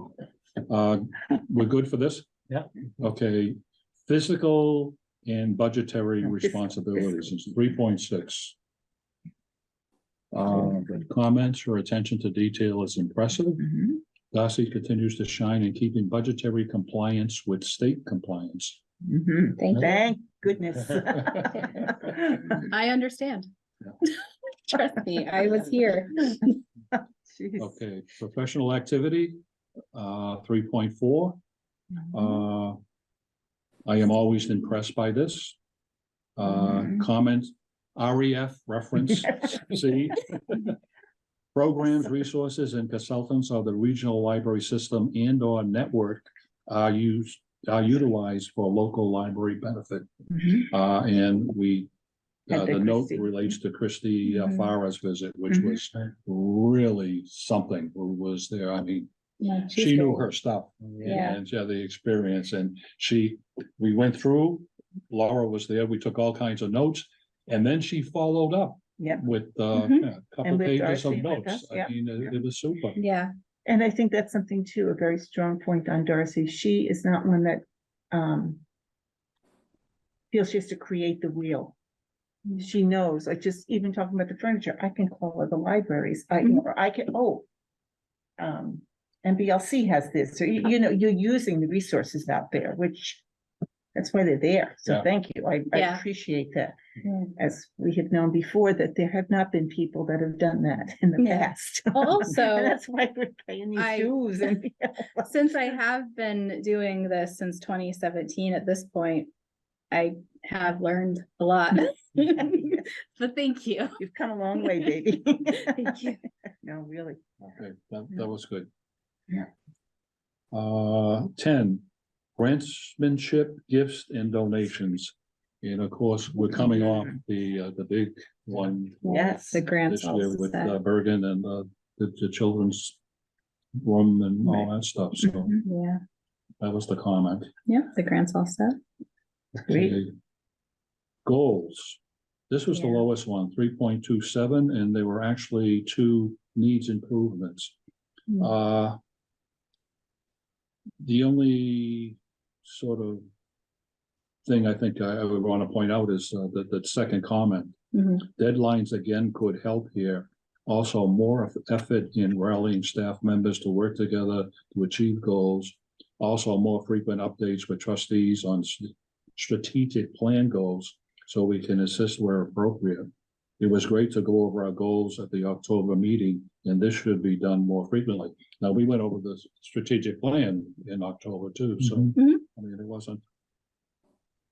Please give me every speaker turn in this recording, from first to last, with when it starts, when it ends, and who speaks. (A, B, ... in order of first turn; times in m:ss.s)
0:00.6-0:02.3 A
0:03.0-0:08.6 A
0:10.3-0:13.7 A
0:13.6-0:14.0 B
0:14.3-0:18.8 A
0:19.0-0:21.6 B
0:19.6-0:20.0 C
0:21.5-0:23.5 C
0:24.0-0:26.5 C
0:27.3-0:27.7 B
0:27.6-0:29.4 A
0:29.9-0:31.4 A
0:32.1-0:32.8 A
0:33.8-0:35.6 A
0:36.4-0:40.8 A
0:41.5-0:51.9 A
0:52.5-0:59.1 A
0:52.5-0:53.3 B
0:55.5-0:55.8 B
0:59.4-1:00.2 C
0:59.7-1:13.0 A
1:01.0-1:01.4 C
1:09.7-1:10.0 C
1:10.4-1:11.9 B
1:13.0-1:13.3 C
1:13.6-1:18.6 B
1:20.3-1:21.8 B
1:22.5-1:27.5 B
1:28.4-1:33.2 B
1:33.9-1:36.8 B
1:35.7-1:36.0 C
1:37.4-1:45.3 B
1:41.9-1:42.8 C
1:43.8-1:44.1 C
1:45.2-1:49.3 C
1:49.9-1:54.0 C
1:54.0-1:56.0 B
1:55.6-1:56.2 C
1:56.6-1:57.2 B
1:57.4-1:58.7 A
2:00.5-2:01.8 A
2:02.4-2:09.0 A
2:09.0-2:10.8 C
2:09.0-2:09.6 B
2:09.7-2:13.0 A
2:13.8-2:15.6 A
2:15.6-2:16.0 C
2:16.6-2:17.5 A
2:17.7-2:18.8 C
2:19.7-2:20.0 B
2:19.7-2:20.1 A
2:21.2-2:22.0 A
2:22.5-2:27.7 A
2:22.8-2:23.0 C
2:28.4-2:29.0 A
2:31.0-2:33.2 A
2:34.4-3:03.2 A
2:37.9-2:38.2 C
3:02.2-3:02.4 C